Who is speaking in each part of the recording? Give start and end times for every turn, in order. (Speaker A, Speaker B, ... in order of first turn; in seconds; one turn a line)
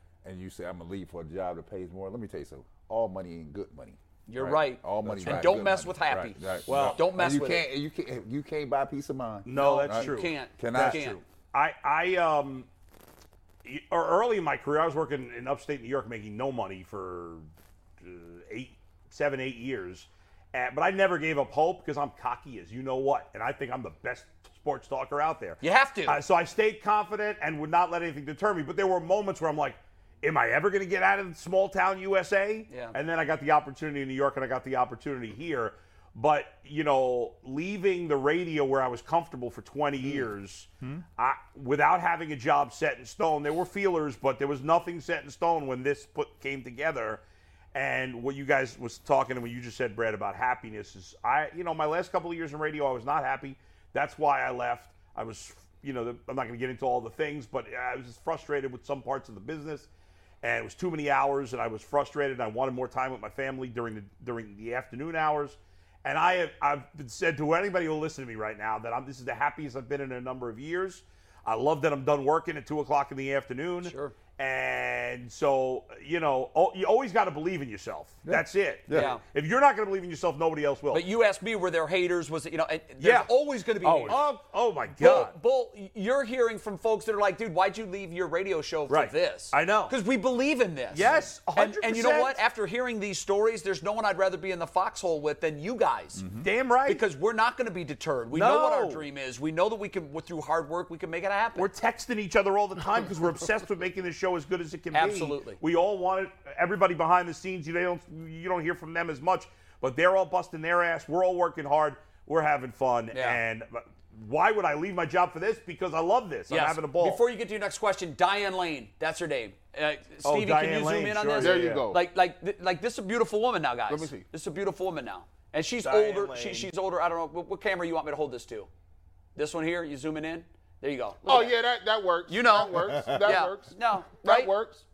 Speaker A: 0.2-11.1
Speaker B: 4.3-7.7
Speaker C: 5.2-5.6
Speaker C: 6.7-7.1
Speaker C: 9.5-12.7
Speaker B: 9.5-11.2
Speaker C: 13.6-17.5
Speaker C: 18.0-47.2
Speaker B: 25.6-26.2
Speaker B: 32.7-33.0
Speaker C: 47.7-59.9
Speaker C: 60.4-81.0
Speaker B: 73.8-74.2
Speaker A: 78.2-79.1
Speaker B: 78.9-79.2
Speaker B: 80.9-84.2
Speaker C: 83.0-83.3
Speaker C: 83.8-85.3
Speaker B: 85.0-96.3
Speaker C: 88.9-90.0
Speaker C: 90.9-92.4
Speaker A: 96.2-96.5
Speaker C: 96.4-97.0
Speaker B: 96.9-101.7
Speaker C: 98.3-99.0
Speaker C: 101.6-117.2
Speaker B: 104.9-105.6
Speaker B: 113.1-113.4
Speaker B: 116.5-128.7
Speaker C: 120.2-121.9
Speaker D: 121.4-122.0
Speaker D: 123.9-124.3
Speaker C: 125.8-126.7
Speaker B: 129.3-131.6
Speaker D: 131.2-134.8
Speaker B: 132.3-134.5